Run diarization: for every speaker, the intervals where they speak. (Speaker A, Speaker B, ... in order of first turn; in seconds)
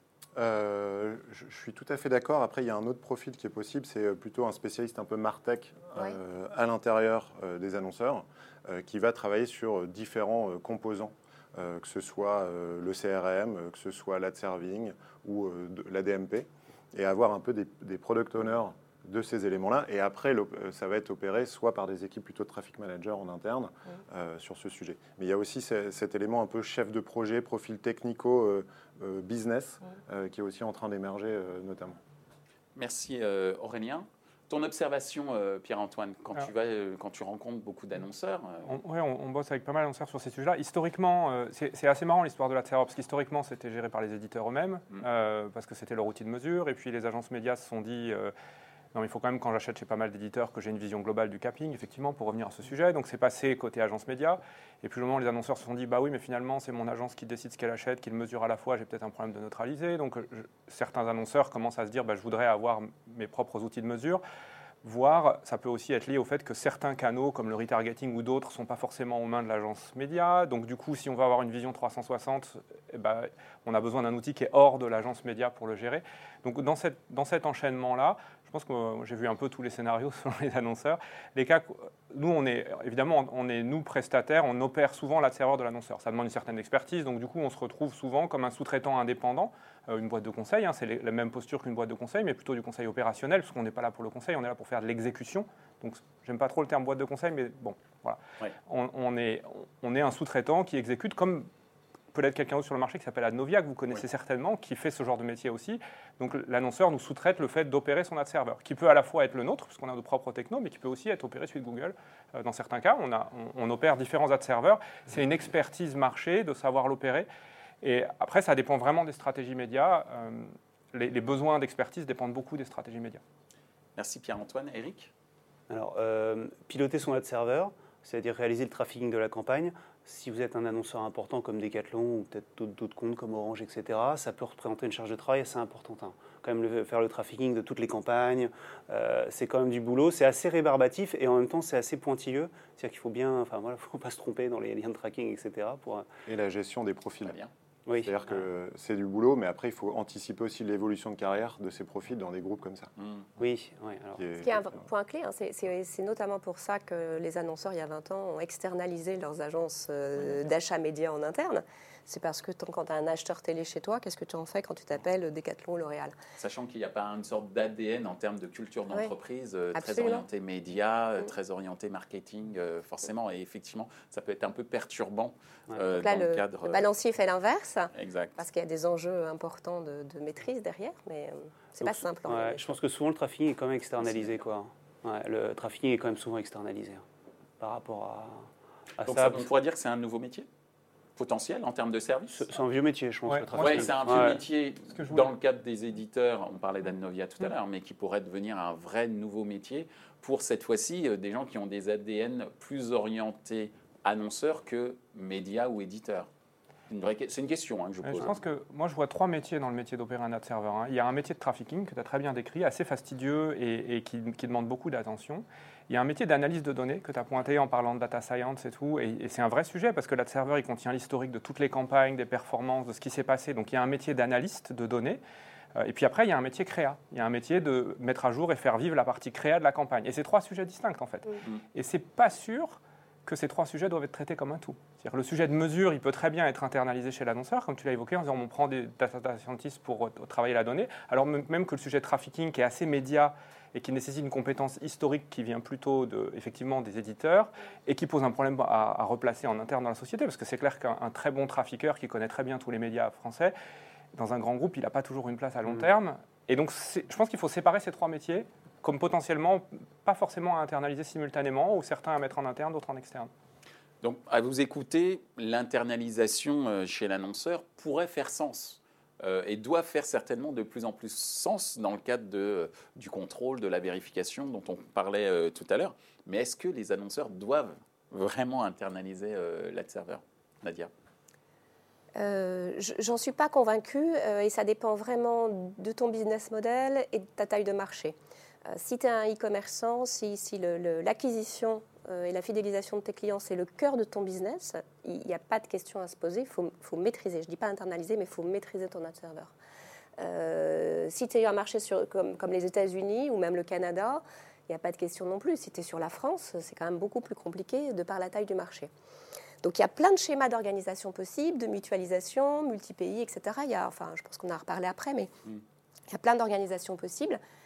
Speaker A: 0.4-32.0, 146.2-147.4, 148.0-152.9, 154.2-154.7
Speaker B: 32.8-38.8, 124.0-125.1, 147.2-147.5, 153.0-153.2, 166.4-176.9, 177.9-178.4, 189.1-190.5, 191.2-192.5, 193.6-206.3, 206.9-208.4, 264.0-280.9
Speaker C: 38.6-48.3, 48.9-64.2, 64.8-101.5, 102.1-117.3, 117.8-123.2, 193.3-194.3, 194.9-195.3, 208.0-225.2, 225.8-253.5, 254.1-263.3
Speaker D: 125.7-146.1, 147.9-148.1, 153.4-154.3, 181.8-187.1, 187.6-189.5, 192.3-194.4
Speaker E: 154.4-166.1, 169.8-170.2, 176.0-182.8, 282.2-288.2, 288.7-299.5, 300.2-308.9, 309.6-315.3, 316.1-317.4